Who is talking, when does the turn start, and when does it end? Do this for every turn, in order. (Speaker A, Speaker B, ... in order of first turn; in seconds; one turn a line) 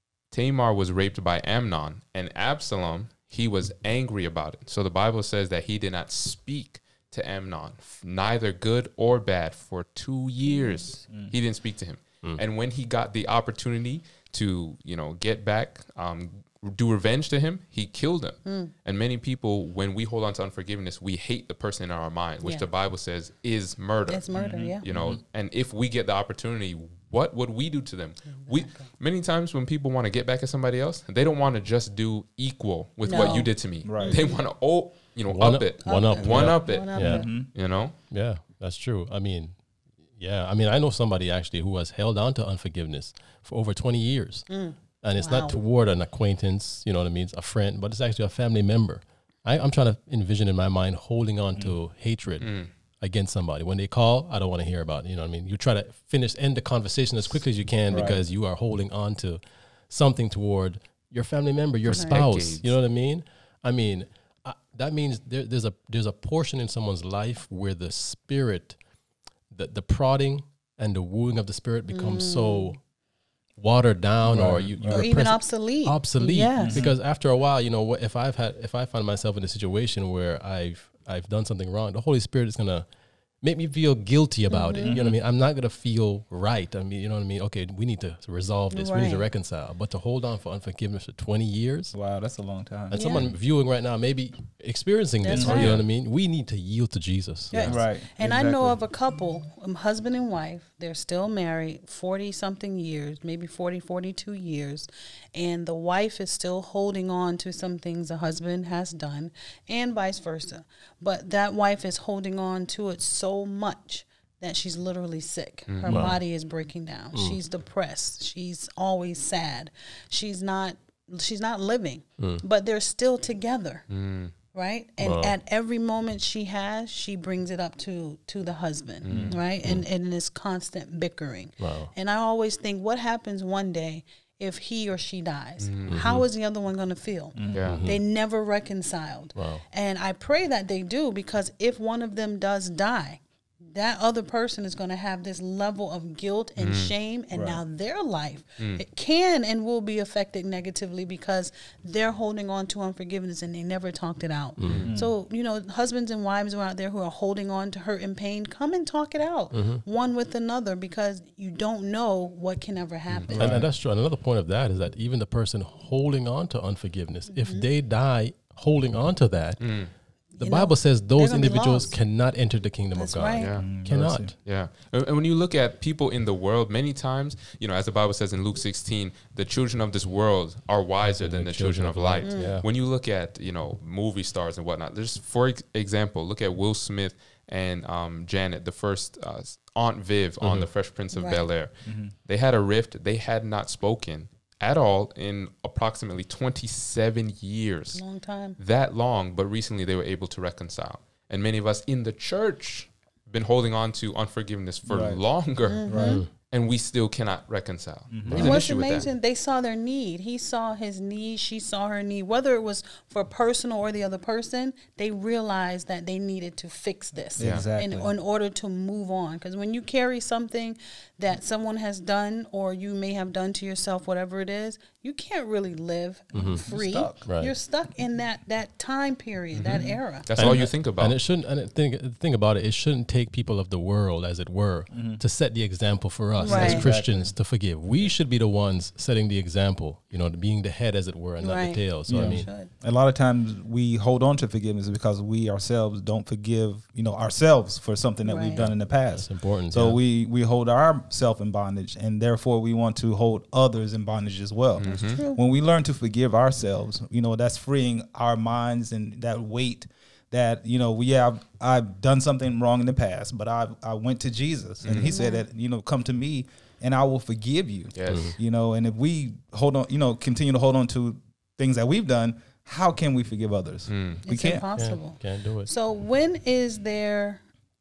Speaker A: 0.3-38.0
Speaker B: 10.5-10.9
Speaker C: 11.1-11.3
Speaker B: 18.4-18.7
Speaker B: 24.1-24.9
Speaker C: 24.3-25.2
Speaker B: 28.4-28.9
Speaker B: 33.0-34.4
Speaker C: 33.8-34.2
Speaker D: 35.3-37.3
Speaker B: 35.8-37.3
Speaker C: 36.9-37.5
Speaker D: 38.1-39.6
Speaker D: 40.1-44.5
Speaker B: 44.5-45.5
Speaker D: 45.0-68.8
Speaker A: 52.4-52.7
Speaker C: 57.9-58.2
Speaker A: 61.8-62.7
Speaker B: 61.9-62.2
Speaker D: 69.5-72.8
Speaker B: 71.9-72.8
Speaker D: 73.6-82.8
Speaker C: 74.2-75.1
Speaker B: 74.9-76.8
Speaker C: 76.6-76.9
Speaker D: 83.4-92.0
Speaker B: 84.5-85.0
Speaker C: 84.8-85.2
Speaker B: 88.7-89.2
Speaker C: 91.9-93.0
Speaker D: 92.9-97.8
Speaker B: 92.9-93.3
Speaker B: 95.2-95.8
Speaker C: 95.3-95.8
Speaker B: 97.5-123.9
Speaker C: 97.6-98.8
Speaker A: 115.7-116.1
Speaker D: 115.9-116.2
Speaker D: 117.1-117.4
Speaker A: 123.9-124.3
Speaker B: 124.5-163.5
Speaker D: 125.0-125.3
Speaker A: 129.0-129.4
Speaker C: 129.1-129.4
Speaker D: 131.6-131.9
Speaker A: 135.6-135.9
Speaker D: 135.9-136.2
Speaker C: 137.3-137.7
Speaker A: 137.5-137.8
Speaker D: 137.6-138.0
Speaker D: 139.3-139.6
Speaker A: 146.6-146.9
Speaker C: 147.3-147.6
Speaker A: 148.6-148.8
Speaker D: 154.6-154.9
Speaker A: 154.7-154.9
Speaker C: 154.8-155.1
Speaker D: 159.5-159.8
Speaker C: 163.3-163.7
Speaker D: 163.3-174.3
Speaker B: 167.3-167.7
Speaker A: 169.6-169.9
Speaker B: 170.3-172.0
Speaker B: 172.9-173.6
Speaker A: 173.4-173.7
Speaker C: 173.6-174.3
Speaker A: 174.3-198.0
Speaker D: 181.0-182.7
Speaker B: 182.2-182.6
Speaker D: 190.4-190.7
Speaker B: 191.1-191.5
Speaker C: 191.8-192.1
Speaker B: 197.9-198.6
Speaker A: 198.6-209.1
Speaker C: 204.8-205.2
Speaker B: 205.7-206.2
Speaker C: 205.8-206.2
Speaker D: 205.9-206.3
Speaker C: 208.1-208.6
Speaker D: 208.3-208.6
Speaker B: 208.3-230.3
Speaker C: 217.4-218.1
Speaker A: 217.4-217.7
Speaker D: 226.3-226.6
Speaker C: 226.6-227.2
Speaker D: 227.2-227.5
Speaker C: 229.7-229.9
Speaker A: 230.2-231.2
Speaker D: 230.3-242.5
Speaker C: 234.9-235.2
Speaker B: 236.4-236.9
Speaker C: 236.4-237.3
Speaker B: 241.4-242.7
Speaker C: 242.1-274.7
Speaker B: 248.2-248.7
Speaker D: 248.5-250.0
Speaker A: 254.8-255.2
Speaker B: 254.8-255.4
Speaker A: 264.8-265.1
Speaker B: 265.0-265.4
Speaker A: 267.9-268.4
Speaker D: 268.1-268.4
Speaker A: 273.9-274.2
Speaker B: 274.2-277.4
Speaker D: 274.8-275.7